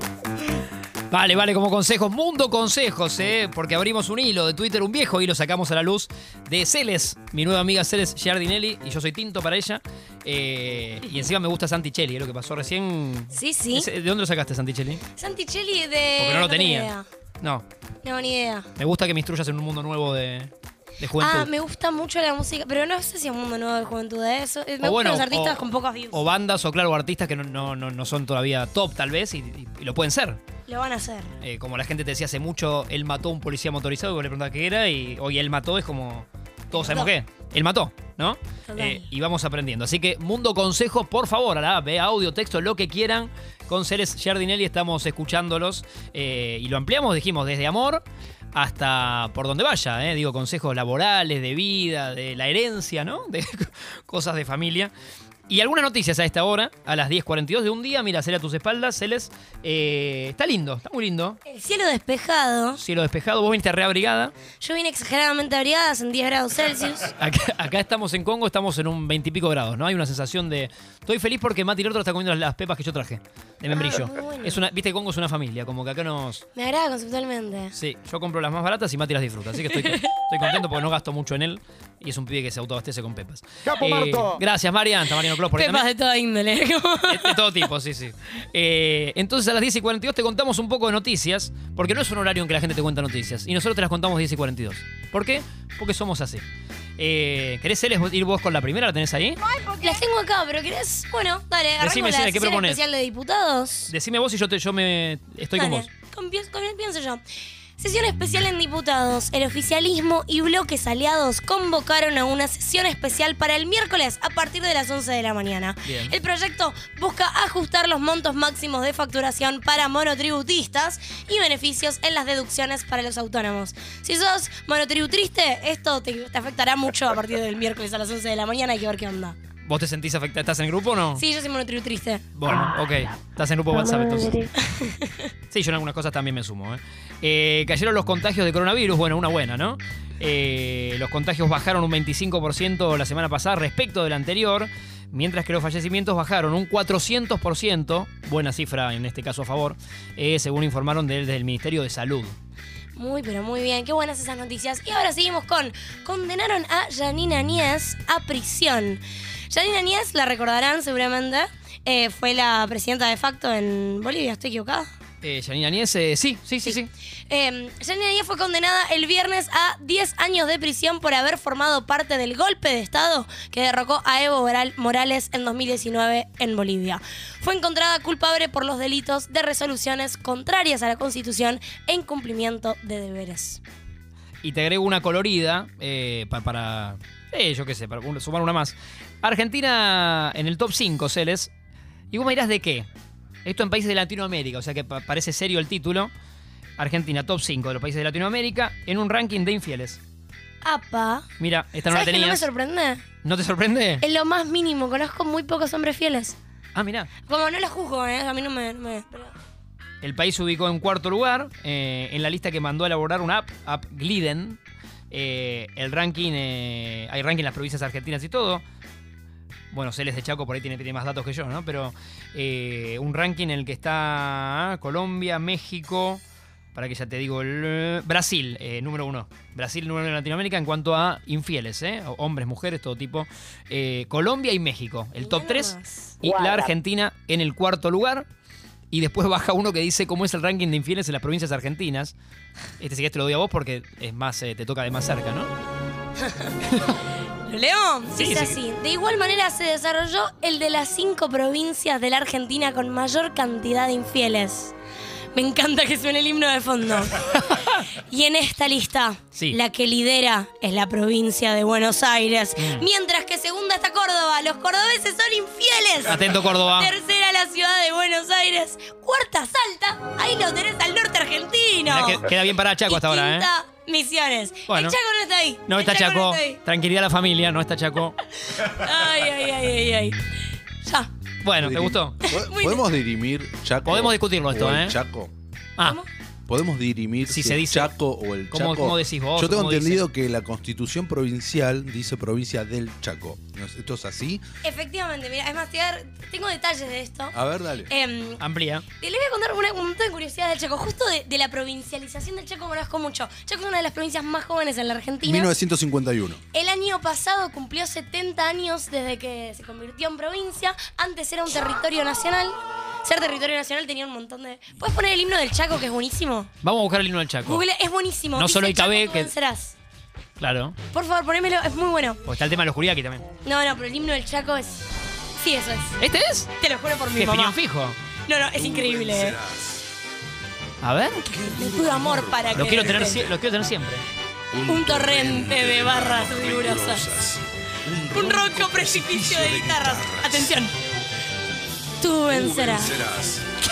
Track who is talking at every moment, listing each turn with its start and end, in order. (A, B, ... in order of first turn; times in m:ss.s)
0:01.1-0:15.0 A
0:13.3-0:13.9 B
0:15.1-0:17.0 B
0:16.2-0:17.6 A
0:18.0-0:18.7 B
0:18.8-0:21.5 A
0:21.2-0:26.2 B
0:24.8-0:30.4 A
0:30.6-0:31.3 B
0:31.4-0:54.9 A
0:36.7-0:37.1 B
0:38.7-0:39.0 B
0:55.5-1:01.4 A
1:01.4-1:02.8 B
1:02.8-1:04.3 A
1:04.6-1:07.1 B
1:07.2-1:16.4 A
1:13.7-1:14.6 B
1:16.5-1:17.7 B
1:17.7-1:25.8 A
1:25.5-1:27.4 B
1:27.1-1:36.4 A
1:37.0-1:39.4 A
1:39.5-1:43.9 B
1:41.8-1:42.8 A
1:43.9-1:45.9 A
1:45.5-1:47.2 B
1:47.8-2:09.4 B
1:55.8-1:56.1 A
2:09.6-2:11.2 A
2:11.1-2:12.2 B
2:12.3-2:14.5 A
2:14.3-2:15.3 B
2:15.5-2:32.4 A
2:33.0-2:44.9 B
2:45.2-2:46.9 A
2:46.6-3:03.6 B
3:04.4-3:11.5 A
3:12.1-3:12.9 A
3:13.4-3:16.1 A
3:16.8-3:20.0 A
3:20.6-3:21.3 B
3:21.4-3:22.5 A
3:21.9-3:23.0 B
3:23.2-3:24.0 A
3:24.0-3:26.4 B
3:26.7-3:27.1 A
3:27.2-3:29.3 B
3:30.0-3:34.6 A
3:35.1-3:38.6 A
3:39.7-3:46.2 A
3:46.7-3:58.3 A
3:55.2-3:56.2 B
3:58.9-4:02.1 A
4:02.8-4:05.5 A
4:06.2-4:06.5 B
4:06.7-4:07.0 A
4:07.4-4:14.7 B
4:08.1-4:08.6 A
4:15.3-4:32.3 B
4:22.6-4:22.8 A
4:26.0-4:26.9 A
4:31.9-4:33.5 A
4:32.9-4:36.6 B
4:34.7-4:35.0 A
4:35.7-4:38.2 A
4:38.5-4:40.2 B
4:40.8-4:41.1 B
4:41.4-4:42.2 A
4:41.6-4:45.3 C
4:42.2-4:42.8 B
4:43.8-4:45.0 A
4:45.8-4:46.1 B
4:46.5-4:54.4 C
4:47.3-4:47.9 A
4:48.5-4:50.0 A
4:54.6-4:58.4 B
4:57.3-4:57.9 C
4:58.4-4:58.8 A
4:59.0-5:05.5 B
5:05.2-5:06.4 C
5:06.5-5:16.5 B
5:16.6-5:17.6 A
5:17.4-5:19.7 B
5:18.4-5:19.3 A
5:20.4-5:20.8 A
5:20.9-5:22.2 B
5:22.2-5:23.2 A
5:23.4-5:24.8 B
5:25.4-5:26.0 B
5:26.0-5:26.5 A
5:26.6-5:27.6 B
5:27.1-5:28.0 A
5:28.2-5:29.4 B
5:28.6-5:29.8 C
5:30.8-5:31.3 A
5:31.2-5:33.4 C
5:31.4-5:33.2 B
5:32.5-5:34.0 A
5:34.5-5:40.6 C
5:34.7-5:37.0 B
5:38.1-5:40.7 B
5:42.0-5:43.0 B
5:42.3-5:43.4 C